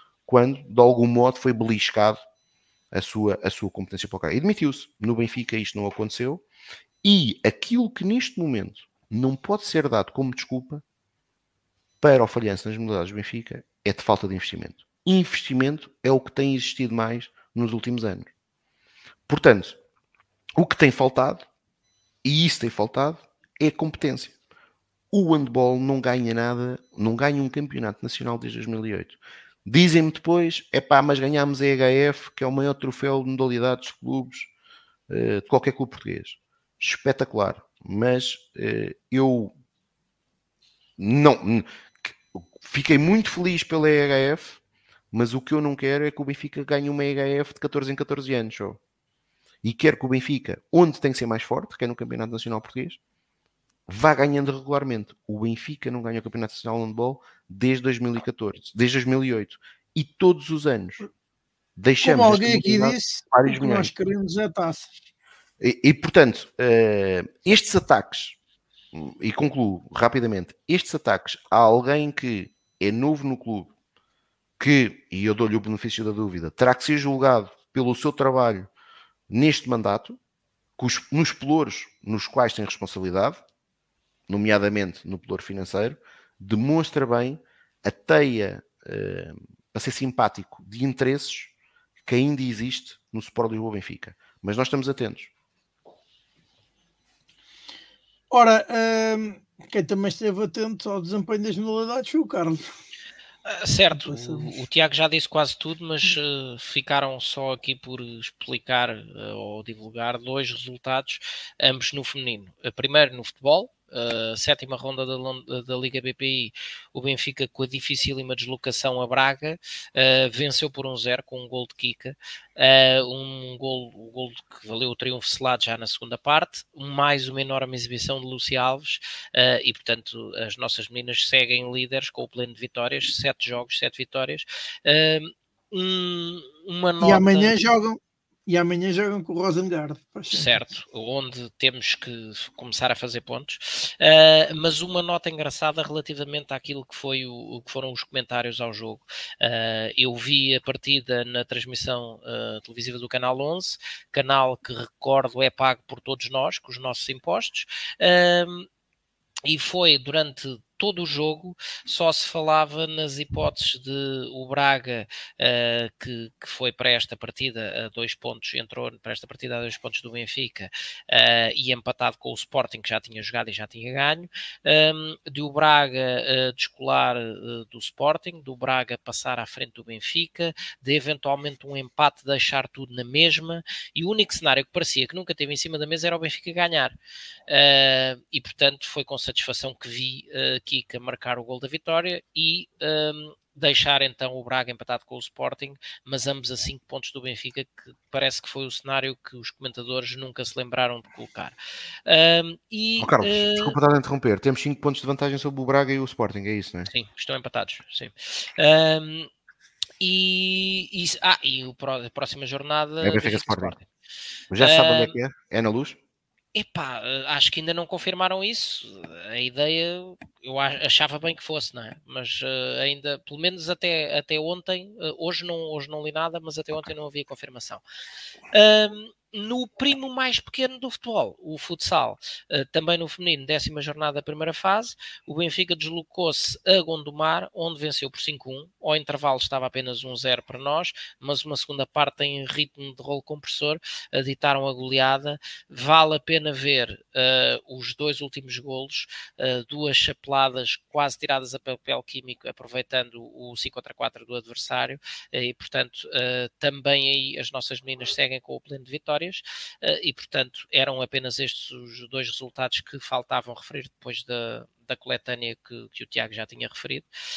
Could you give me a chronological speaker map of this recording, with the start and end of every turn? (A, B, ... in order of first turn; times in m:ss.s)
0:00.3-0:02.2 A
0:02.9-0:06.4 A
0:07.0-0:10.8 A
0:12.0-0:18.3 A
0:19.3-0:19.8 A
0:20.6-0:21.4 A
0:22.2-0:24.3 A
0:25.1-0:34.5 A
0:35.1-0:39.5 A
0:41.0-0:44.6 A
0:45.1-0:48.8 A
0:49.6-0:53.0 A
0:53.9-1:01.0 A
1:01.8-1:03.9 A
1:02.0-1:04.9 B
1:05.6-1:08.4 A
1:08.9-1:13.7 A
1:14.6-1:18.7 A
1:19.3-1:20.2 A
1:20.8-1:23.4 A
1:24.3-1:31.5 A
1:32.0-1:35.3 A
1:38.3-1:42.7 B
1:43.5-2:17.5 C
1:43.9-1:44.5 B
2:17.0-2:20.6 B
2:20.3-2:38.7 C
2:39.5-3:07.0 C
3:07.5-3:21.6 C
3:22.1-3:23.8 C
3:23.0-3:26.9 A
3:26.9-3:29.3 C
3:30.0-3:33.8 C
3:33.0-3:33.8 A
3:34.5-3:36.0 A
3:34.6-3:35.2 C
3:36.5-3:47.8 C
3:48.5-4:27.1 C